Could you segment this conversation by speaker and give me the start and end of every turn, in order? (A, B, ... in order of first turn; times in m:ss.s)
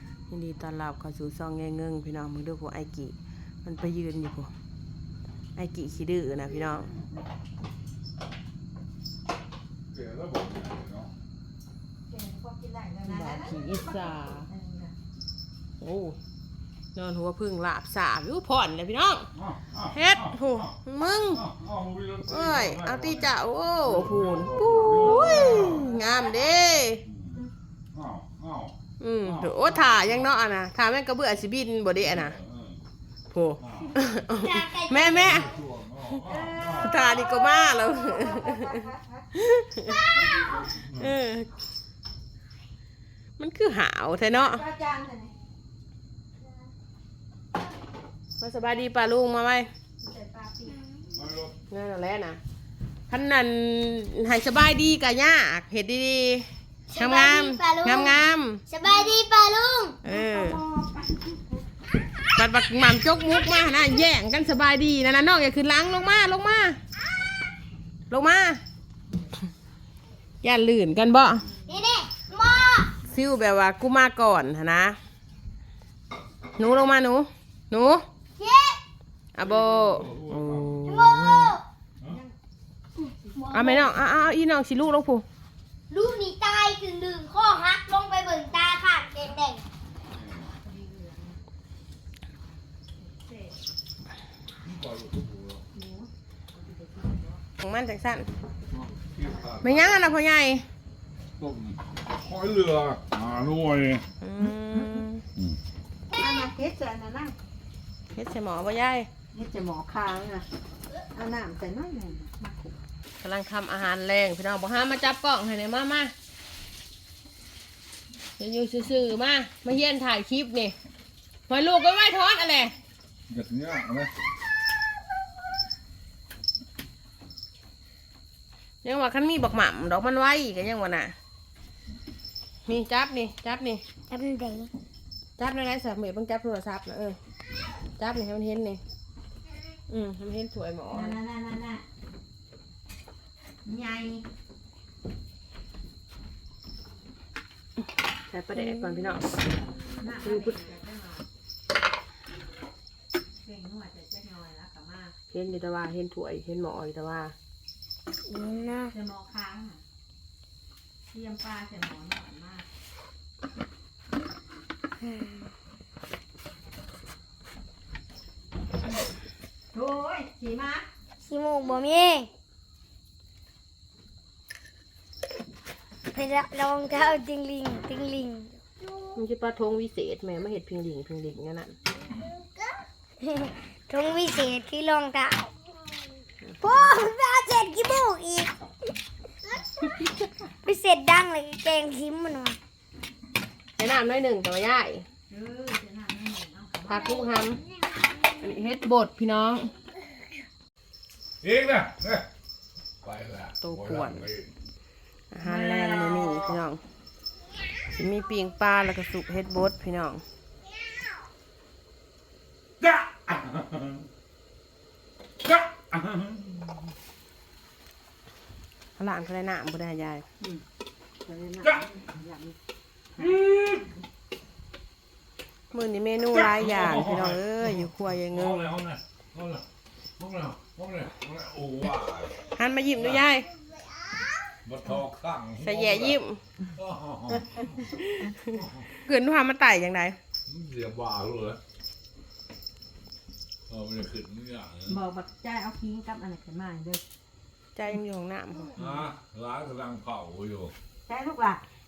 0:00.3-0:04.5 A
0:05.6-0:06.9 A
0:09.9-0:11.1 B
0:12.1-0:14.9 C
0:13.0-0:14.5 A
0:15.8-0:16.2 A
0:17.0-0:19.3 A
0:19.3-0:20.7 B
0:19.9-0:21.4 A
0:21.3-0:25.9 B
0:22.3-0:27.0 A
0:24.9-0:26.0 C
0:27.0-0:30.3 B
0:29.0-0:32.4 A
0:32.0-0:32.8 B
0:33.3-0:35.6 A
0:33.6-0:34.0 B
0:34.3-0:35.4 D
0:35.1-0:37.0 B
0:36.2-0:37.1 C
0:36.8-0:38.8 A
0:38.0-0:39.3 C
0:39.4-0:40.1 A
0:40.1-0:40.8 C
0:40.7-0:41.2 B
0:40.9-0:41.5 A
0:43.4-0:44.6 A
0:44.4-0:45.4 C
0:48.4-0:49.7 A
0:50.0-0:50.8 C
0:51.1-0:51.6 B
0:51.7-0:52.4 A
0:53.1-0:58.6 A
0:56.9-1:00.0 D
0:58.8-0:59.1 C
1:00.0-1:00.6 A
1:00.1-1:01.6 C
1:02.4-1:06.8 A
1:08.1-1:08.6 A
1:10.4-1:11.5 A
1:11.7-1:13.0 D
1:13.1-1:15.0 A
1:16.6-1:18.0 A
1:18.4-1:18.8 D
1:19.4-1:21.6 A
1:19.4-1:21.0 B
1:20.8-1:21.6 D
1:22.0-1:22.4 C
1:23.3-1:24.2 C
1:23.4-1:23.9 D
1:23.5-1:25.2 A
1:25.9-1:29.6 D
1:30.2-1:30.5 B
1:30.5-1:31.4 C
1:33.0-1:33.6 C
1:34.6-1:35.6 B
1:35.7-1:37.4 C
1:37.6-1:38.3 A
1:38.7-1:40.0 B
1:39.6-1:40.6 A
1:41.4-1:44.0 B
1:44.2-1:45.2 A
1:44.4-1:45.1 C
1:46.1-1:47.4 C
1:48.1-1:49.1 A
1:49.3-1:50.5 C
1:51.1-1:52.8 C
1:53.2-1:56.1 A
1:58.4-2:00.8 A
2:01.5-2:02.8 A
2:03.3-2:04.1 B
2:08.8-2:11.1 A
2:12.7-2:13.8 A
2:14.1-2:14.7 D
2:15.4-2:17.2 A
2:18.0-2:18.8 A
2:19.9-2:21.2 A
2:20.9-2:21.8 C
2:23.6-2:24.2 C
2:28.3-2:29.2 A
2:29.8-2:31.3 C
2:30.2-2:30.6 A
2:33.4-2:35.2 C
2:35.3-2:37.4 A
2:38.3-2:38.9 D
2:38.9-2:39.8 C
2:41.1-2:42.7 C
2:45.0-2:45.5 D
2:49.7-2:50.9 C
2:51.2-2:52.3 D
2:56.1-2:58.6 D
2:59.2-3:01.8 A
3:03.2-3:05.5 D
3:06.6-3:08.5 D
3:10.7-3:12.6 D
3:13.8-3:15.0 A
3:15.3-3:17.3 C
3:16.9-3:17.6 A
3:18.4-3:19.7 A
3:21.4-3:22.3 B
3:23.0-3:24.5 B
3:23.6-3:24.3 A
3:25.3-3:26.8 A
3:25.4-3:26.6 B
3:27.9-3:30.2 A
3:32.8-3:34.1 B
3:35.4-3:36.7 B
3:39.0-3:40.2 A
3:41.2-3:42.6 C
3:41.6-3:41.9 B
3:43.2-3:44.0 B
3:45.7-3:48.7 A
3:46.3-3:49.6 B
3:50.2-3:52.4 B
3:52.5-3:53.5 A
3:53.0-3:53.2 B
3:54.6-3:56.2 B
3:55.6-3:56.4 A
3:56.7-3:58.9 B
3:58.0-3:58.4 A
3:59.0-4:00.2 A
4:00.5-4:01.6 B
4:03.7-4:05.0 B
4:04.9-4:07.0 C
4:07.8-4:08.7 A
4:08.8-4:10.7 B
4:11.1-4:11.6 C